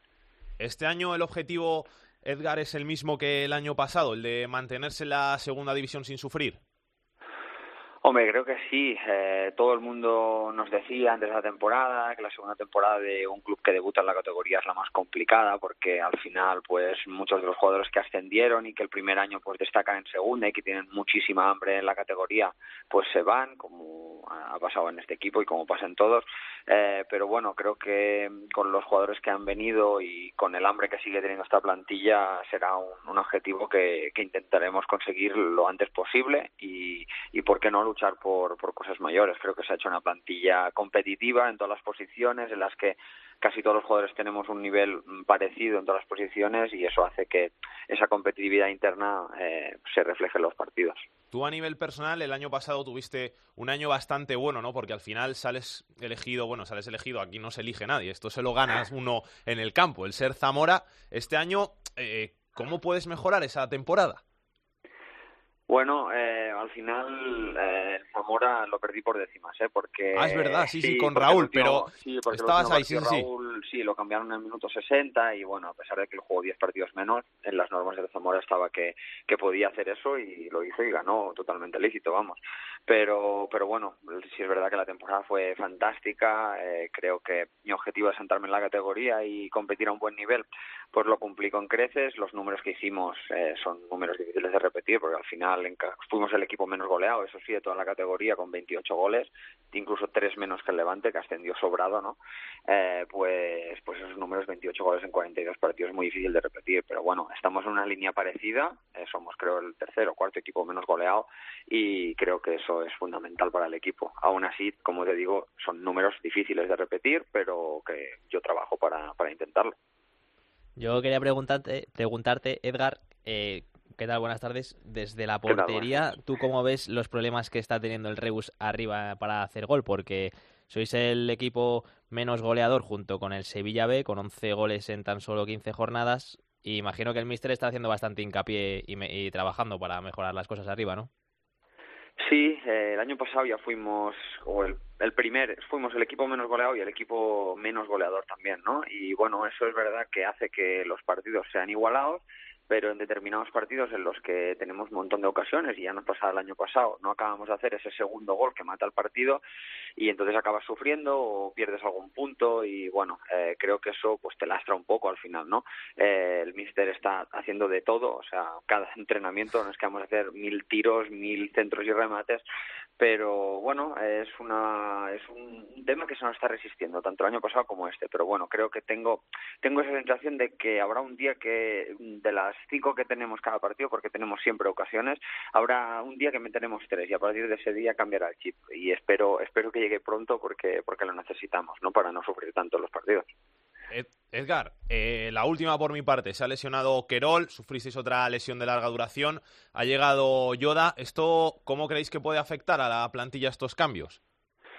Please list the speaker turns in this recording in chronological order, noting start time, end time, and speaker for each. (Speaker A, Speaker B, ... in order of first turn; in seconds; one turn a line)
Speaker A: 0.6-6.6
Speaker B: 8.0-51.0
Speaker A: 51.3-64.2
Speaker B: 65.7-102.2
Speaker A: 70.1-73.3
Speaker B: 102.7-119.8
Speaker C: 120.8-141.1
Speaker B: 125.5-126.0
Speaker B: 142.2-159.4
Speaker B: 160.0-172.4
Speaker B: 173.0-193.3
Speaker A: 193.9-204.2